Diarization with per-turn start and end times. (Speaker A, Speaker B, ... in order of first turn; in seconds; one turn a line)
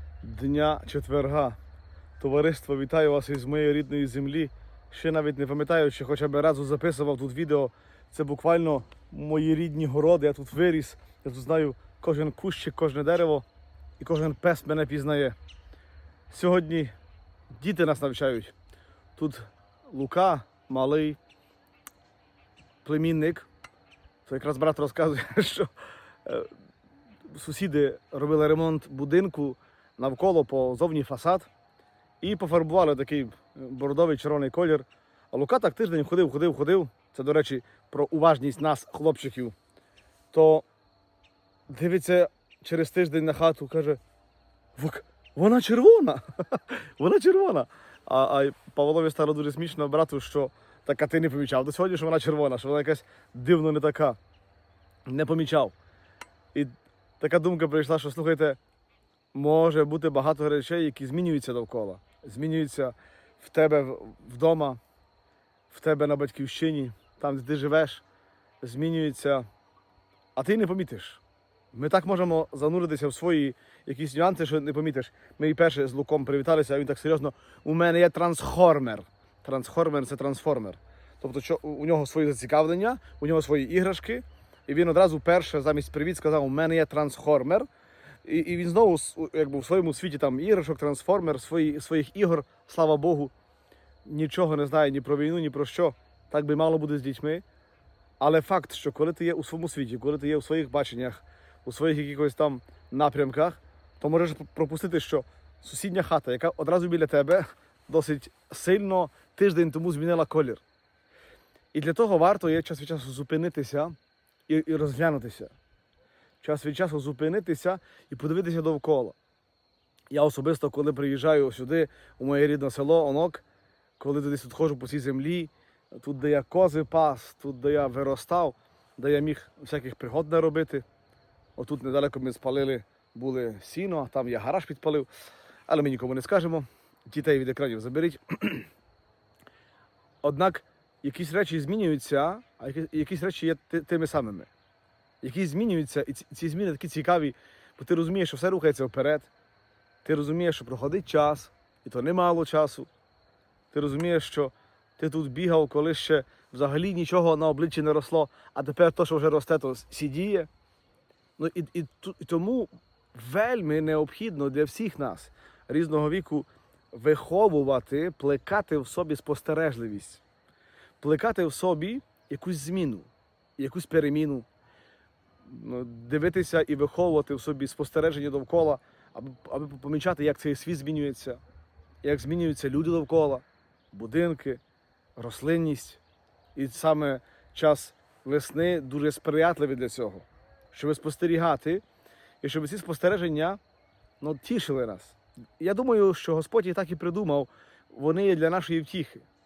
Speaker A: 0.2-1.6
Speaker A: 2.2-13.4
Speaker A: 14.0-15.4
Speaker A: 16.3-16.9
Speaker A: 17.5-18.5
Speaker A: 19.2-21.2
Speaker A: 22.8-23.5
Speaker A: 24.3-25.7
Speaker A: 26.2-26.5
Speaker A: 27.3-31.5
Speaker A: 32.2-39.5
Speaker A: 40.3-40.6
Speaker A: 41.7-44.0
Speaker A: 44.8-54.2
Speaker A: 55.1-55.7
Speaker A: 56.5-58.6
Speaker A: 59.3-64.8
Speaker A: 65.7-68.0
Speaker A: 68.6-69.5
Speaker A: 70.3-71.2
Speaker A: 71.7-87.7
Speaker A: 88.2-93.3
Speaker A: 94.0-97.4
Speaker A: 98.2-110.6
Speaker A: 111.7-114.0
Speaker A: 114.5-115.5
Speaker A: 116.4-119.2
Speaker A: 120.1-123.4
Speaker A: 124.0-130.8
Speaker A: 131.6-135.1
Speaker A: 135.7-138.7
Speaker A: 140.2-144.5
Speaker A: 145.2-149.3
Speaker A: 150.0-152.9
Speaker A: 153.7-160.5
Speaker A: 161.4-170.2
Speaker A: 171.0-174.5
Speaker A: 175.4-181.4
Speaker A: 182.0-184.6
Speaker A: 185.2-186.0
Speaker A: 186.6-191.8
Speaker A: 192.4-193.6
Speaker A: 194.2-199.3